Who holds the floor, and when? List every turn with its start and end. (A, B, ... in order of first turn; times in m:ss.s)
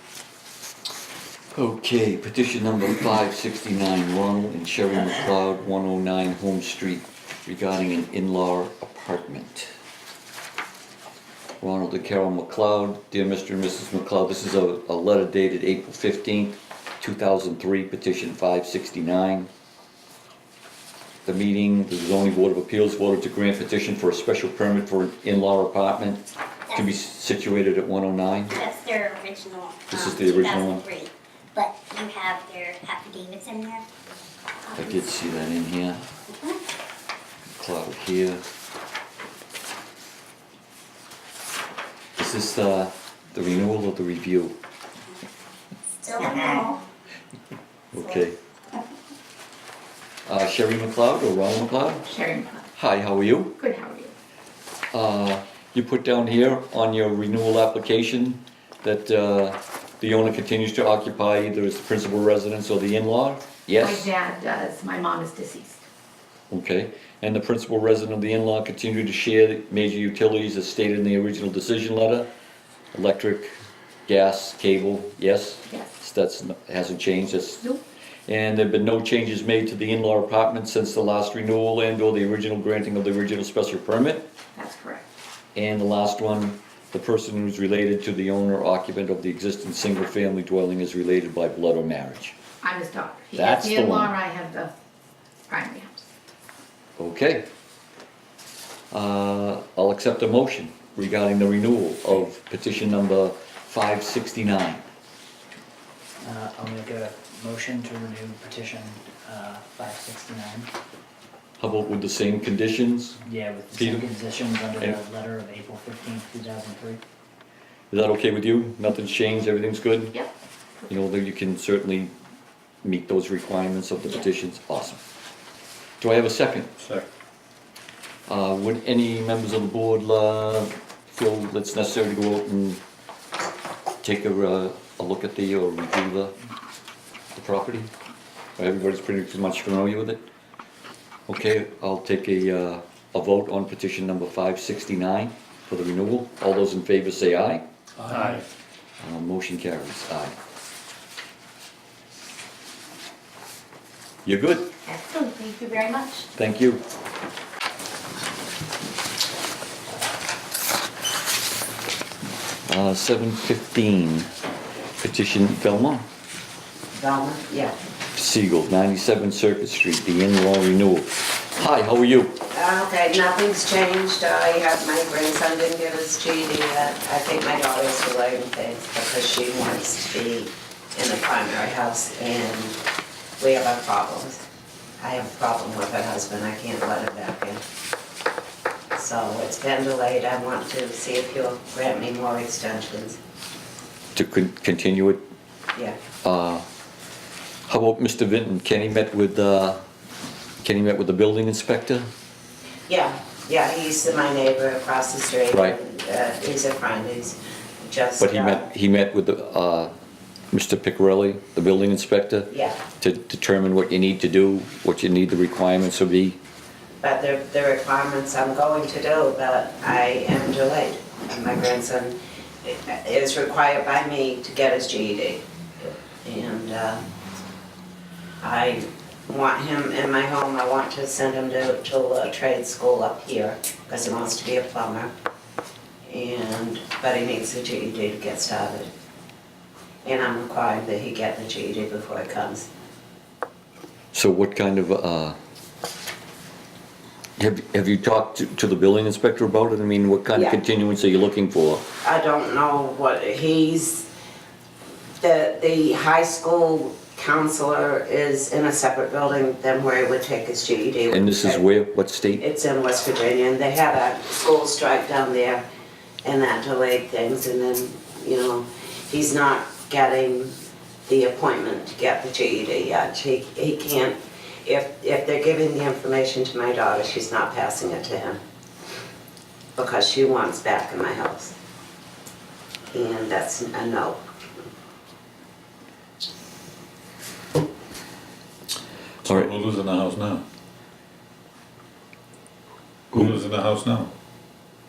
0:01.5-0:09.7 A
0:11.6-0:19.5 A
0:21.2-0:28.6 A
0:28.5-0:33.8 B
0:29.9-0:30.9 A
0:34.7-0:35.0 B
0:34.8-0:36.0 A
0:37.5-0:38.4 A
0:42.2-0:44.6 A
0:46.0-0:46.8 B
0:47.9-0:48.4 A
0:50.3-0:52.1 A
0:52.1-0:52.7 C
0:52.7-0:53.6 A
0:53.6-0:54.1 C
0:54.9-1:04.1 A
1:03.8-1:05.8 C
1:06.5-1:12.3 A
1:12.9-1:13.6 A
1:14.1-1:17.7 A
1:15.7-1:16.0 C
1:18.3-1:24.3 A
1:24.6-1:25.1 C
1:25.6-1:32.4 A
1:32.6-1:34.7 C
1:33.4-1:34.2 A
1:35.5-1:36.0 C
1:37.0-1:37.5 A
1:38.9-1:44.8 A
1:46.2-1:50.7 D
1:51.6-1:53.2 A
1:53.2-1:57.0 D
1:53.7-1:54.1 A
1:57.9-2:00.2 A
2:00.9-2:02.1 A
2:02.8-2:05.0 A
2:06.0-2:06.7 A
2:06.8-2:07.0 E
2:08.3-2:12.8 A
2:14.0-2:16.4 A
2:17.4-2:17.9 A
2:18.6-2:20.2 A
2:21.3-2:27.6 A
2:28.0-2:28.4 E
2:29.0-2:30.4 A
2:34.2-2:34.7 A
2:34.9-2:36.3 C
2:36.4-2:36.8 A
2:42.7-2:44.3 A
2:45.0-2:46.0 A
2:47.0-2:47.7 F
2:48.2-2:52.4 A
2:52.5-3:02.8 F
3:03.4-3:04.4 F
3:05.0-3:07.6 F
3:09.0-3:13.2 F
3:14.2-3:15.2 A
3:16.2-3:16.6 A
3:17.7-3:19.8 A
3:20.6-3:22.1 A
3:22.9-3:28.7 F
3:28.2-3:29.9 A
3:30.5-3:36.4 A
3:32.5-3:32.8 F
3:37.0-3:47.0 F
3:48.4-3:55.1 F
3:56.1-3:58.9 F
4:00.0-4:02.7 F
4:04.1-4:05.4 A
4:07.4-4:11.8 A
4:10.3-4:10.6 F
4:12.0-4:14.1 F
4:15.2-4:21.6 F
4:21.1-4:22.4 A
4:22.4-4:25.6 F
4:26.2-4:30.5 F
4:31.1-4:38.4 F
4:39.8-4:41.5 F
4:42.9-4:44.2 F
4:49.2-4:50.4 E
4:53.1-4:54.1 E